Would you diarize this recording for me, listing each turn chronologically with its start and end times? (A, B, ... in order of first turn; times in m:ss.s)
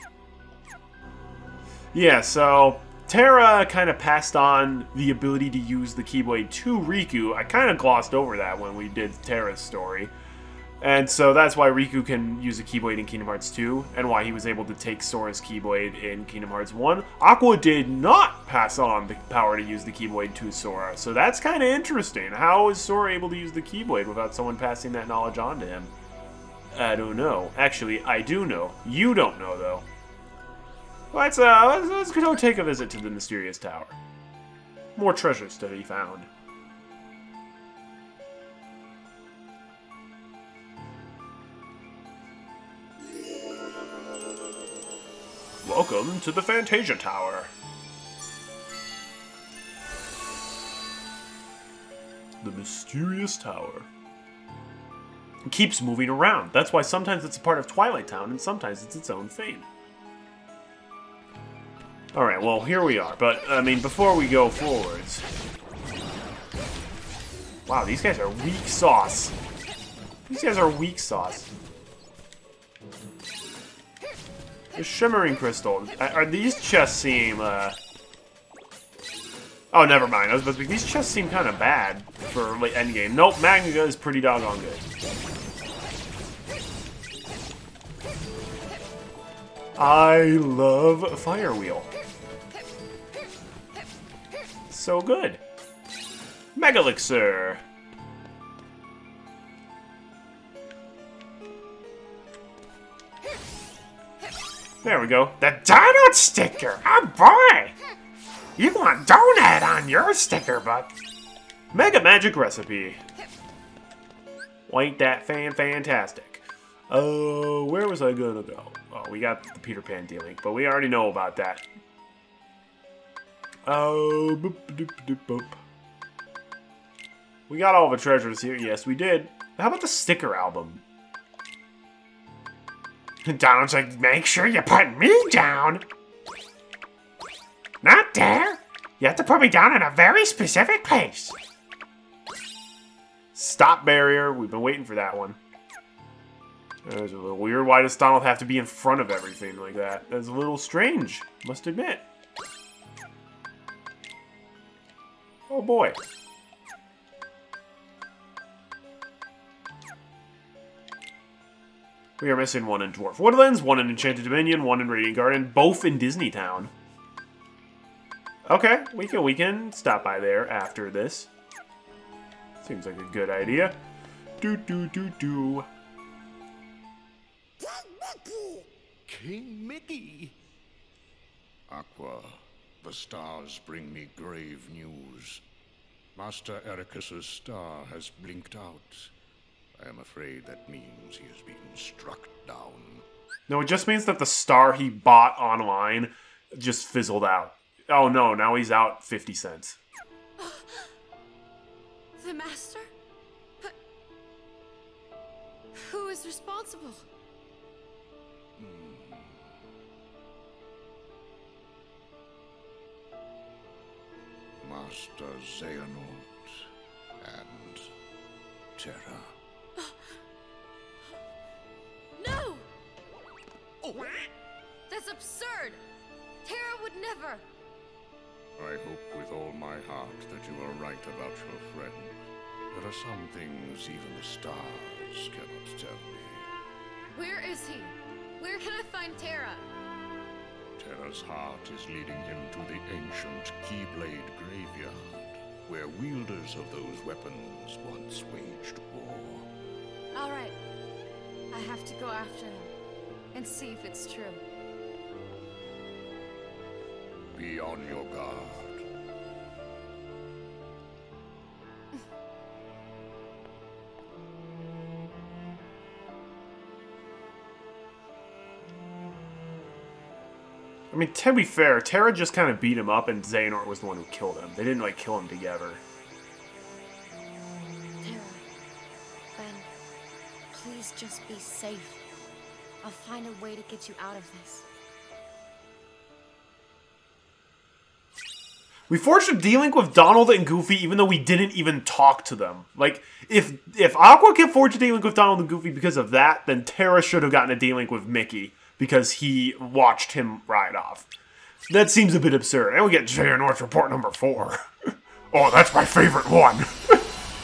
0:01.9-0:10.1 A
0:10.8-0:25.9 A
0:26.7-0:29.9 A
0:31.1-0:34.0 A
0:35.0-0:36.3 A
0:45.6-0:47.5 A
0:52.4-0:53.9 A
0:55.5-0:59.7 A
1:02.1-1:05.2 A
1:07.7-1:09.4 A
1:10.3-1:11.5 A
1:14.8-1:17.8 A
1:19.7-1:24.9 A
1:29.8-1:31.9 A
1:34.7-1:35.4 A
1:36.6-1:37.6 A
1:44.8-1:47.7 A
1:48.6-1:50.9 A
1:51.7-1:53.0 A
1:54.7-2:01.6 A
2:03.7-2:05.6 A
2:07.5-2:10.8 A
2:13.2-2:15.8 A
2:17.8-2:21.4 A
2:23.4-2:25.4 A
2:26.8-2:32.0 A
2:35.5-2:36.0 A
2:42.2-2:46.7 A
2:48.5-2:51.3 A
2:52.6-2:53.8 A
2:54.4-2:55.7 A
2:58.2-3:00.3 B
3:01.7-3:05.4 B
3:06.2-3:09.1 B
3:09.8-3:13.0 B
3:13.5-3:19.8 A
3:20.4-3:20.9 C
3:22.2-3:22.9 C
3:25.8-3:27.0 C
3:28.6-3:29.5 B
3:34.6-3:36.7 B
3:37.2-3:37.9 B
3:38.8-3:39.3 B
3:42.2-3:42.7 C
3:43.8-3:44.2 B
3:44.9-3:45.8 C
3:46.4-3:47.4 C
3:48.6-3:52.2 B
3:52.7-3:56.5 B
3:57.2-3:59.6 C
4:00.8-4:09.5 B
4:10.1-4:10.6 C
4:11.5-4:12.7 C
4:13.3-4:14.4 C
4:17.3-4:18.9 B
4:30.9-4:35.8 A
4:38.0-4:38.4 C
4:39.3-4:39.7 C
4:40.5-4:42.0 C
4:42.8-4:44.6 C
4:48.9-5:01.1 A
5:01.7-5:07.1 A